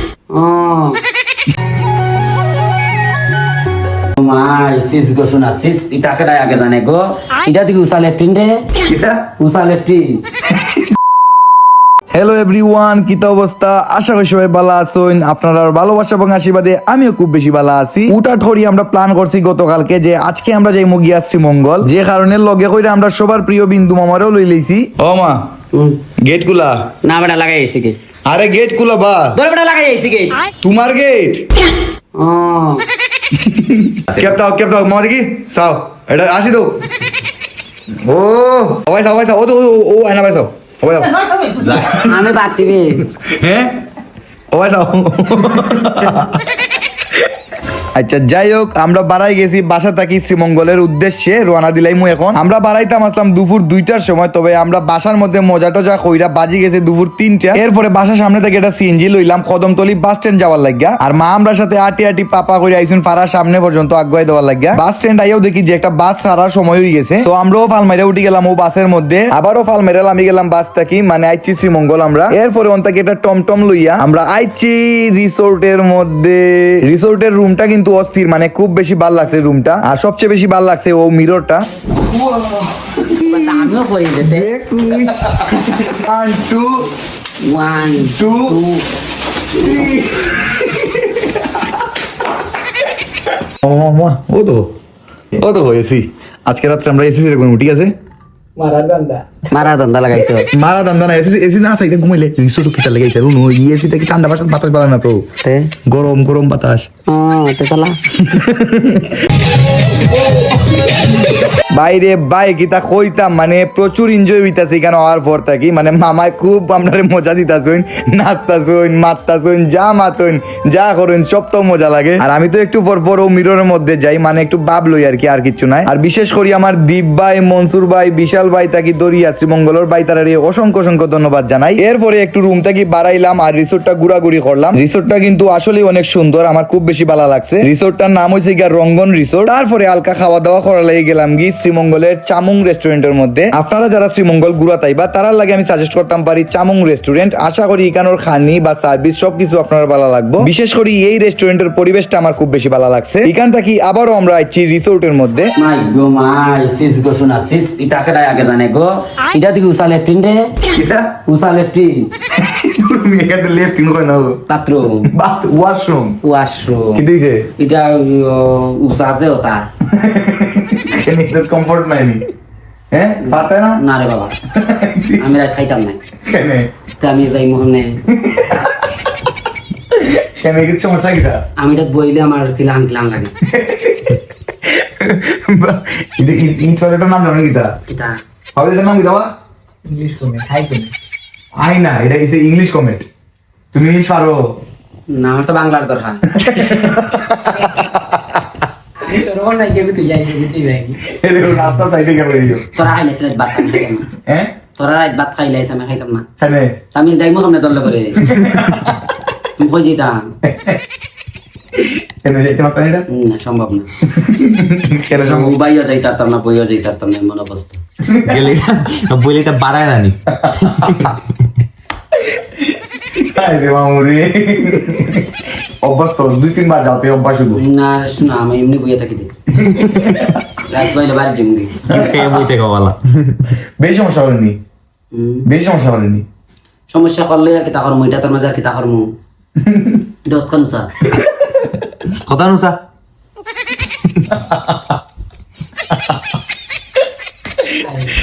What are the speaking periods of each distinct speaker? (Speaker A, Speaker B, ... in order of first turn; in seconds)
Speaker A: 0.3-1.0, 4.2-8.7, 9.4-10.2, 25.7-26.0, 27.0-28.0, 29.3-30.4, 32.1-32.8, 41.7-43.1, 83.2-84.5, 87.4-88.8, 99.5-100.5, 105.4-105.7, 107.1-108.0, 155.6-160.5, 161.2-162.1, 164.5-165.1, 166.2-167.0, 167.6-169.7, 173.2-174.3, 175.2-176.0, 177.0-178.0, 181.6-183.3, 187.9-188.2, 195.1-196.4, 202.7-204.1, 204.8-206.2, 206.9-208.3, 209.6-210.3, 213.1-213.9, 215.1-217.8, 227.6-229.3, 230.6-231.8, 235.1-235.4, 236.9-239.1, 240.2-240.9
Speaker B: 8.9-9.2, 12.1-25.5, 26.2-26.9, 28.3-29.3, 30.6-31.5, 33.3-36.8, 38.0-42.1, 43.2-43.7, 44.5-46.4, 47.9-83.7, 84.2-86.7, 88.0-88.5, 89.5-91.8, 93.6-94.7, 95.3-97.9, 100.5-105.3, 105.8-106.9, 108.2-109.2, 111.7-155.5, 160.7-161.1, 162.3-164.4, 165.1-166.2, 166.9-167.4, 169.9-172.2, 172.9-173.8, 174.5-175.2, 176.2-176.7, 178.1-178.9, 179.9-181.4, 183.4-187.7, 188.5-189.3, 191.6-193.1, 193.7-194.6, 196.3-198.4, 201.0-202.8, 204.2-204.5, 206.4-206.7, 208.2-209.0, 210.4-210.8, 211.7-213.1, 214.0-215.5, 218.0-218.5, 220.3-221.1, 222.1-227.6, 229.5-230.4, 231.9-232.4, 233.8-234.6, 235.4-236.2, 239.6-240.1, 241.1-241.5
Speaker C: 98.6-99.2, 189.8-190.9, 199.1-201.0
Speaker D: 218.3-221.2, 231.9-233.5, 242.1-242.8